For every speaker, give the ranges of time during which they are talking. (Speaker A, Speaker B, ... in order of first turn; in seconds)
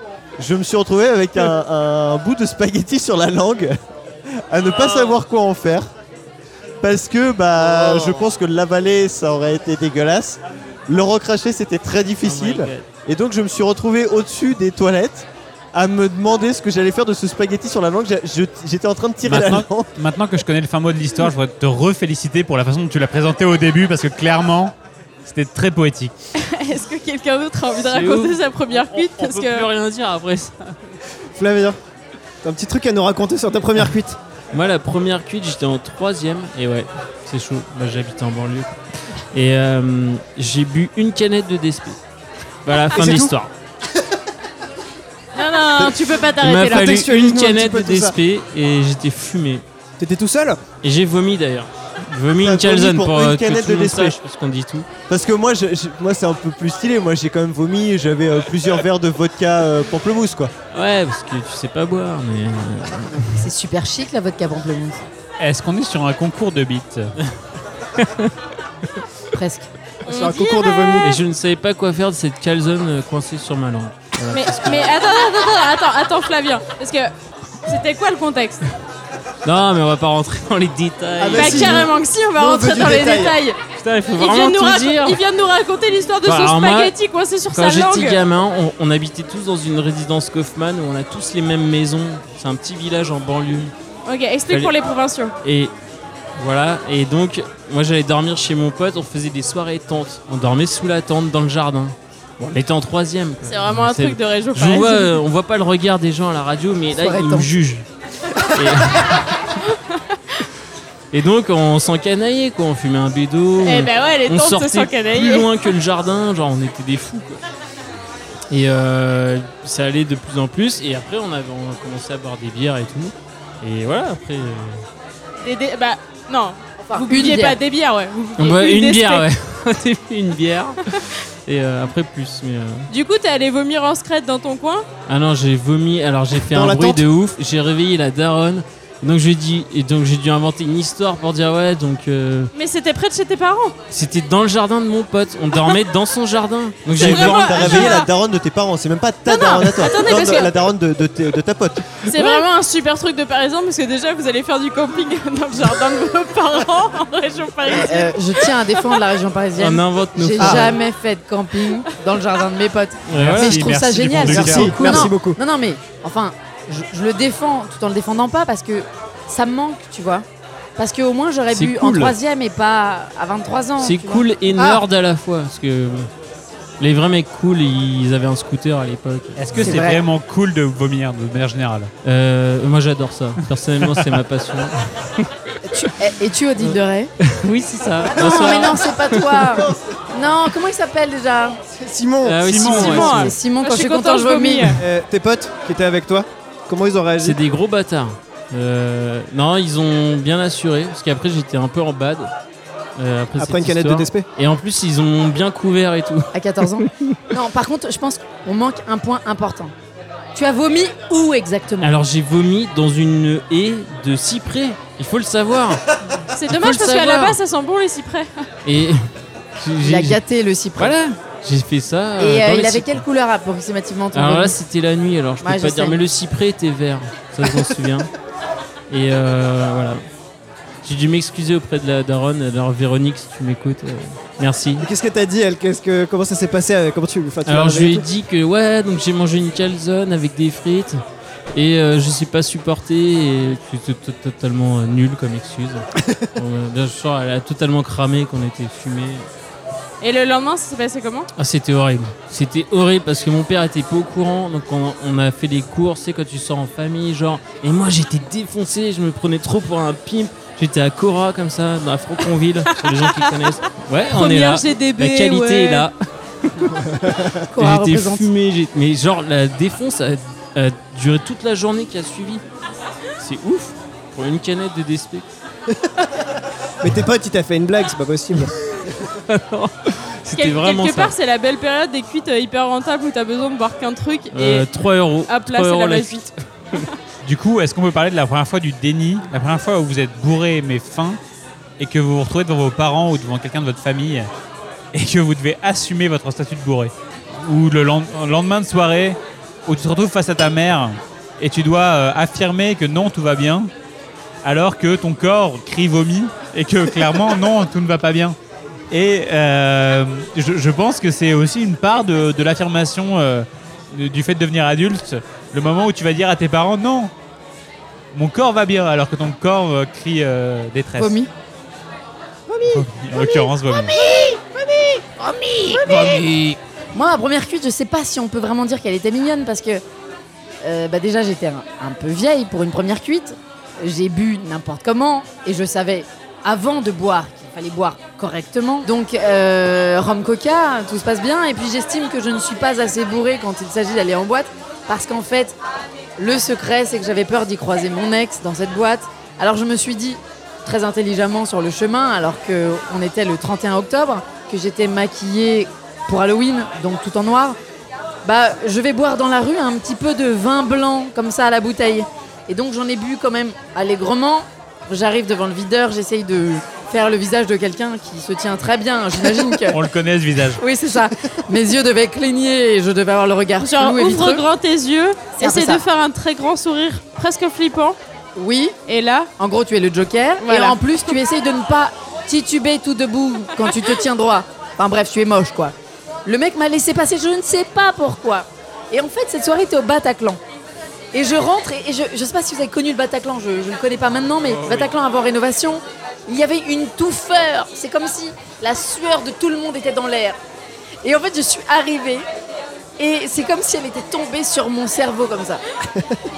Speaker A: 0.4-3.8, 4.3-5.9, 6.8-19.9, 52.4-54.2, 55.1-60.5, 146.9-152.0
Speaker B: 7.7-8.1, 12.2-12.8, 27.9-31.0, 34.5-38.7, 39.3-42.0, 42.6-43.5, 46.4-49.6, 50.8-54.9, 60.7-63.5, 68.0-68.3, 71.0-74.9, 79.4-81.8, 83.8-85.2, 86.2-86.9, 87.5-93.7, 94.5-94.7, 95.4-95.7, 96.4-107.8, 108.5-109.1, 111.1-117.4, 118.5-124.8, 128.4-130.8, 131.4-132.9, 135.1-142.5, 143.9-147.9, 159.6-160.8, 163.1-163.7, 171.5-172.1, 173.8-176.1, 176.8-179.7, 182.0-184.8, 186.6-189.7, 192.2-193.3, 197.2-202.3, 203.0-206.9, 211.8-215.8, 216.5-217.3, 218.7-219.1, 219.6-220.2, 220.8-223.0, 224.1-228.1, 228.9-230.0, 230.8-234.9, 237.4-241.0, 241.5-249.3, 251.4-265.9, 267.6-272.4, 273.2-275.3, 279.3-281.1, 284.3-286.9
Speaker C: 19.2-26.1, 65.4-67.1, 163.2-165.1, 179.3-181.9, 192.5-193.0, 287.2-291.2, 291.8-294.3, 294.9-303.7, 304.4-308.4, 308.9-317.1, 318.1-321.1, 322.7-323.9, 369.7-370.6, 394.5-394.9
Speaker D: 26.4-29.7, 45.3-47.0, 70.0-71.1, 74.3-77.1, 77.7-78.6, 81.3-83.6, 84.2-88.2, 94.0-95.3, 103.4-105.2, 113.6-115.5, 125.4-129.3, 132.9-134.9, 142.5-143.7, 147.0-148.1, 149.3-150.5, 152.0-158.5, 192.8-194.8, 216.3-218.4, 250.0-251.3, 264.3-265.4, 280.3-284.7, 285.3-286.9, 373.6-378.0, 378.9-379.3, 380.4-380.8
Speaker E: 31.3-31.8, 32.4-34.2, 42.9-43.3, 46.5-48.2, 50.0-50.6, 70.1-71.2, 81.2-83.4, 136.4-137.1, 160.4-160.7, 164.2-165.4, 174.5-174.8, 191.7-193.1, 194.8-197.4, 203.3-204.3, 234.8-238.1, 266.8-267.1, 276.8-278.5
Speaker F: 63.4-65.0, 69.3-69.7, 106.9-107.5, 126.8-127.6, 157.7-170.2, 170.8-174.2, 179.6-180.0, 185.6-187.1, 188.1-191.6, 192.6-194.8, 206.3-209.7, 210.3-211.9, 216.8-217.1, 219.8-221.0, 222.2-224.6, 225.4-226.0, 267.5-268.3, 321.0-321.3, 323.1-326.2, 326.9-329.8, 330.6-345.6, 346.2-357.6, 358.2-369.8, 370.6-374.4, 375.4-375.8, 378.4-378.7, 379.4-385.7, 386.2-390.4, 391.1-400.4, 401.0-402.3, 403.0-405.6